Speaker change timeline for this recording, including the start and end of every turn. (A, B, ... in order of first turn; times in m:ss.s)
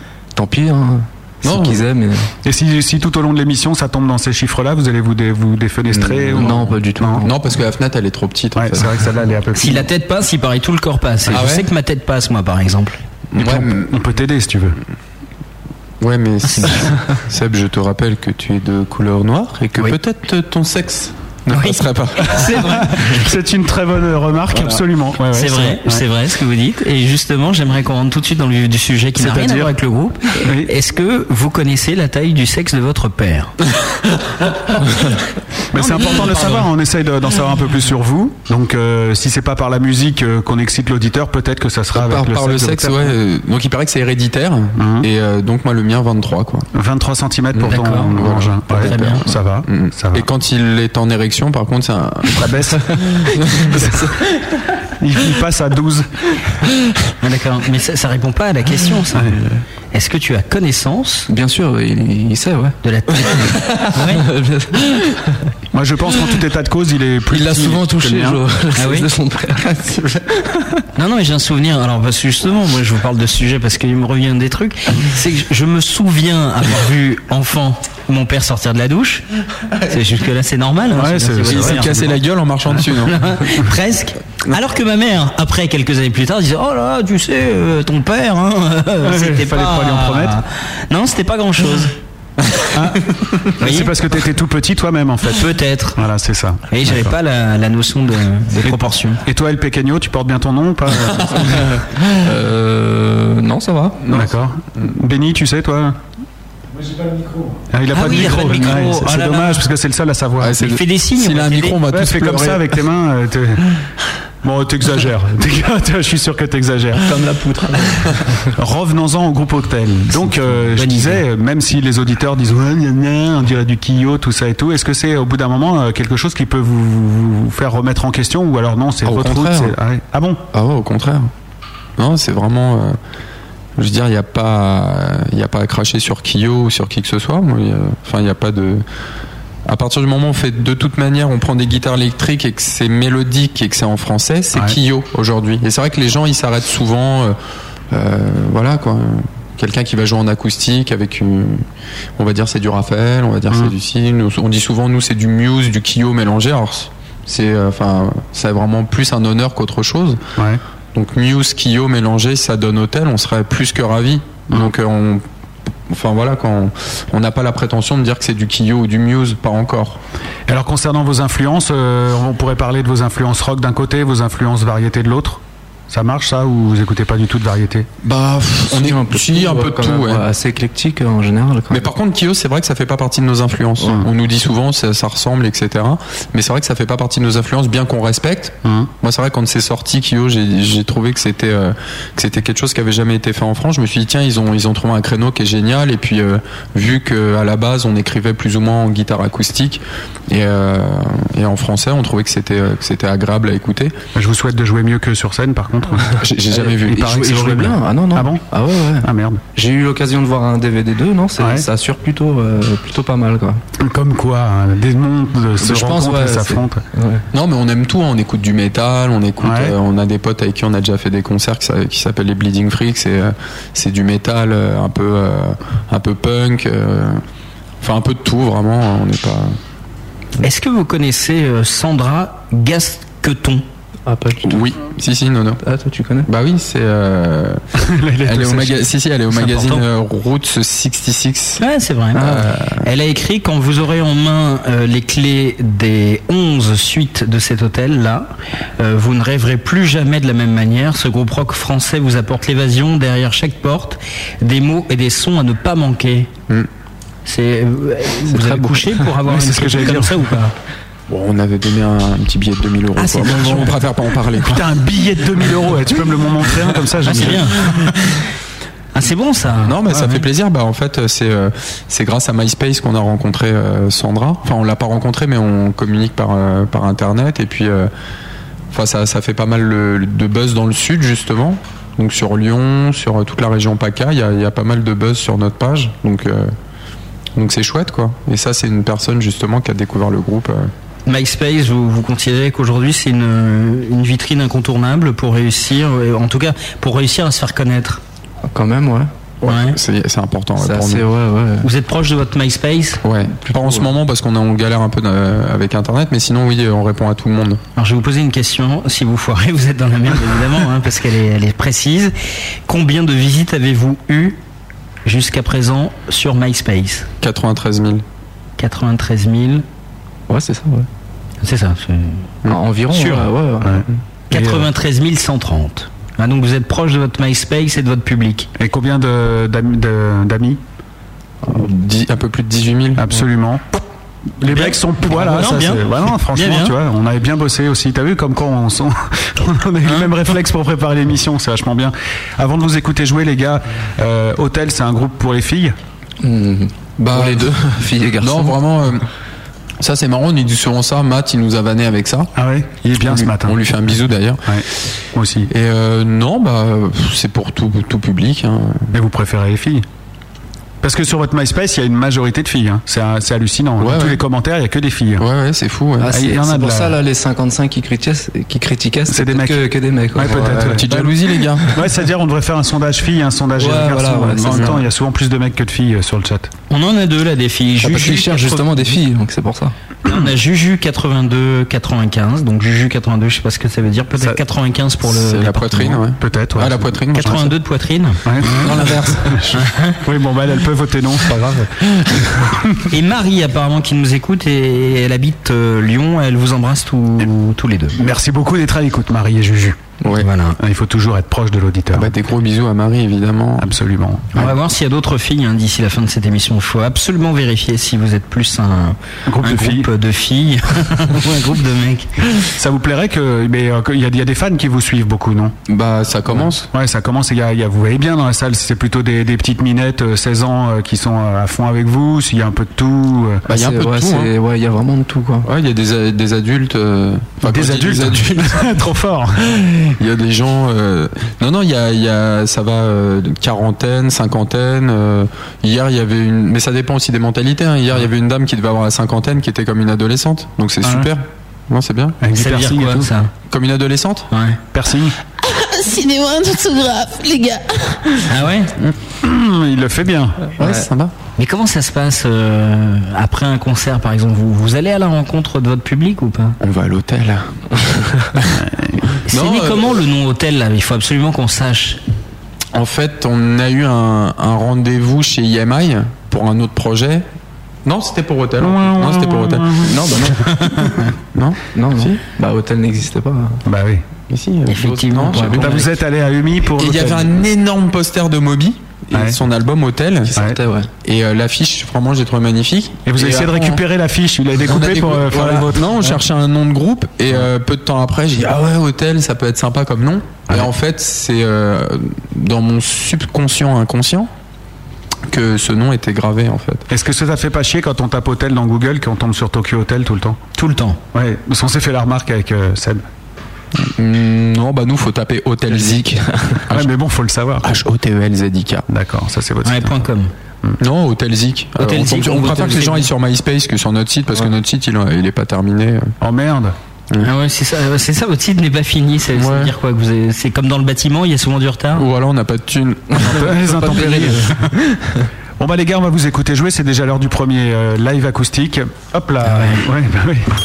0:00.4-0:02.3 A
0:01.4-0:01.8 B
0:02.4-0:07.2 C
0:06.0-0:07.3 A
0:06.3-0:09.1 B
0:08.6-0:09.9 C
0:09.6-0:13.0 D
0:11.3-0:11.7 B
0:13.3-0:14.0 B
0:13.4-0:14.8 C
0:16.0-0:22.9 B
0:16.5-0:16.9 D
0:21.5-0:23.1 D
0:22.2-0:26.0 C
0:24.5-0:24.8 B
0:25.3-0:33.5 D
0:29.2-0:29.7 C
0:30.4-0:30.7 C
0:35.7-0:43.1 C
0:35.7-0:36.7 D
0:41.9-0:46.7 B
0:44.8-0:45.1 C
0:46.7-0:50.3 C
0:47.5-0:52.5 B
0:47.7-0:49.3 D
0:52.4-0:53.0 C
0:53.1-0:53.8 B
0:55.0-0:56.1 C
0:57.2-0:59.4 D
0:59.9-1:01.3 D
1:01.3-1:05.4 A
1:02.8-1:04.2 D
1:05.7-1:08.4 C
1:07.3-1:10.6 A
1:08.8-1:09.1 D
1:11.0-1:19.2 D
1:19.9-1:22.1 D
1:20.9-1:21.9 C
1:21.5-1:23.2 B
1:22.8-1:31.9 D
1:29.0-1:30.4 C
1:32.7-1:35.4 C
1:33.6-1:33.9 D
1:35.3-1:36.0 D
1:36.0-1:37.1 C
1:36.7-1:39.2 D
1:38.6-1:41.7 C
1:42.2-1:44.0 A
1:44.0-1:44.9 B
1:44.1-1:46.0 C
1:47.7-1:50.6 C
1:47.9-1:49.7 D
1:50.4-1:52.8 B
1:50.6-1:51.8 D
1:51.9-1:53.8 C
1:54.4-1:57.1 C
1:57.0-1:58.4 A
1:58.6-2:10.4 C
2:00.2-2:01.2 D
2:09.0-2:09.8 B
2:10.5-2:11.3 B
2:12.0-2:13.0 B
2:13.8-2:18.8 B
2:19.7-2:27.4 B
2:27.9-2:40.2 B
2:40.9-2:45.2 B
2:45.9-2:50.0 B
2:50.5-2:57.9 C
2:58.0-3:00.2 B
2:58.7-3:01.9 A
3:01.7-3:24.0 B
3:08.6-3:08.9 C
3:24.2-3:26.2 C
3:26.2-3:27.3 B
3:26.5-3:33.6 A
3:26.9-3:28.4 C
3:29.0-3:29.4 C
3:31.4-3:31.7 C
3:33.8-3:36.8 C
3:35.6-3:37.2 A
3:37.3-3:47.2 B
3:39.4-3:39.8 C
3:47.8-3:49.6 B
3:50.4-3:53.6 D
3:54.1-3:54.6 A
3:54.5-3:55.6 B
3:55.6-3:56.3 A
3:56.3-3:57.6 B
3:57.8-3:58.8 C
3:58.2-4:01.6 B
3:59.3-3:59.8 D
4:01.6-4:16.3 D
4:02.2-4:02.5 A
4:02.2-4:02.9 B
4:17.3-4:20.5 D
4:18.3-4:19.0 A
4:19.3-4:20.2 C
4:21.1-4:24.7 B
4:23.0-4:23.8 D
4:24.5-4:27.5 C
4:27.1-4:27.7 D
4:29.0-4:29.7 D
4:29.6-4:37.9 B
4:29.8-4:30.2 C
4:38.7-4:46.5 B
4:47.4-4:50.7 B
4:51.1-4:58.0 D
4:58.4-4:59.1 A
4:59.4-5:01.0 B
4:59.4-4:59.8 D
5:00.6-5:01.7 A
5:01.6-5:03.0 D
5:03.0-5:07.6 B
5:03.5-5:03.9 A
5:07.8-5:12.1 D
5:12.7-5:14.4 D
5:15.0-5:17.1 D
5:17.2-5:18.0 B
5:18.6-5:19.6 D
5:20.3-5:20.9 A
5:21.4-5:22.3 D
5:22.5-5:23.9 A
5:22.9-5:23.3 D
5:23.6-5:24.7 C
5:24.3-5:28.5 D
5:28.6-5:30.6 C
5:31.4-5:33.1 B
5:33.0-5:33.6 C
5:34.4-5:45.8 C
5:34.4-5:36.8 D
5:46.2-5:48.6 A
5:47.1-5:47.5 B
5:48.2-5:49.1 B
5:49.8-5:52.3 B
5:52.4-5:53.6 C
5:53.0-5:54.6 B
5:54.5-5:55.5 C
5:55.5-5:58.9 B
5:58.9-5:59.8 C
6:00.8-6:05.3 C
6:03.8-6:04.2 B
6:05.2-6:06.2 B
6:06.0-6:11.1 A
6:06.1-6:07.0 C
6:09.1-6:10.9 C
6:10.2-6:11.8 B
6:11.7-6:16.5 C
6:13.6-6:14.9 A
6:14.5-6:14.8 B
6:16.7-6:18.9 D
6:17.8-6:19.7 A
6:20.1-6:26.0 D
6:25.0-6:27.5 B
6:26.2-6:27.5 C
6:27.2-6:28.8 D
6:28.2-6:32.1 C
6:28.6-6:29.4 B
6:29.5-6:30.0 D
6:32.9-6:38.0 D
6:38.0-6:39.8 C
6:40.2-6:40.6 D
6:40.6-6:42.1 C
6:41.9-6:43.7 B
6:43.6-6:44.5 C
6:44.3-6:52.1 D
6:49.3-6:49.9 C
6:52.4-6:55.5 C
6:55.7-6:56.7 B
6:56.7-7:03.4 C
7:03.5-7:05.5 A
7:03.5-7:04.3 B
7:05.4-7:08.7 B
7:07.4-7:09.9 C
7:10.0-7:22.2 B
7:20.8-7:21.1 C
7:22.2-7:23.1 C
7:22.3-7:23.3 D
7:23.5-7:24.3 B
7:24.3-7:24.6 D
7:24.7-7:25.2 C
7:25.4-7:28.1 E
7:28.3-7:28.7 D
7:29.2-7:30.5 C
7:30.6-7:31.1 B
7:31.4-7:36.6 D
7:36.6-7:37.5 B
7:38.5-7:39.0 C
7:39.3-7:40.0 B
7:39.3-7:42.0 D
7:42.7-7:47.3 B
7:47.8-7:49.9 B
7:48.6-7:49.9 C
7:49.8-7:50.4 A
7:50.6-7:50.9 D
7:51.3-7:52.2 B
7:51.8-7:53.6 A
7:53.7-7:54.0 C
7:54.3-7:55.9 B
7:54.7-7:55.9 D
7:55.3-7:55.6 A
7:55.6-7:57.3 C
7:56.8-8:00.4 B
7:59.1-7:59.4 C
8:00.3-8:00.9 A
8:01.0-8:03.8 B
8:03.1-8:06.2 C
8:04.6-8:14.3 B
8:15.3-8:16.9 B
8:16.9-8:20.5 C
8:20.5-8:21.0 D
8:21.1-8:23.0 C
8:23.8-8:26.9 B
8:26.4-8:26.6 A
8:26.7-8:27.7 C
8:27.6-8:28.9 B
8:28.9-8:30.0 C
8:29.6-8:30.3 D
8:30.8-8:36.1 B
8:31.8-8:33.1 D
8:36.2-8:36.8 C
8:37.2-8:42.1 D
8:39.4-8:39.7 B
8:41.9-8:44.1 B
8:43.2-8:45.2 A
8:43.3-8:44.7 C
8:45.6-8:50.5 C
8:49.4-8:49.8 D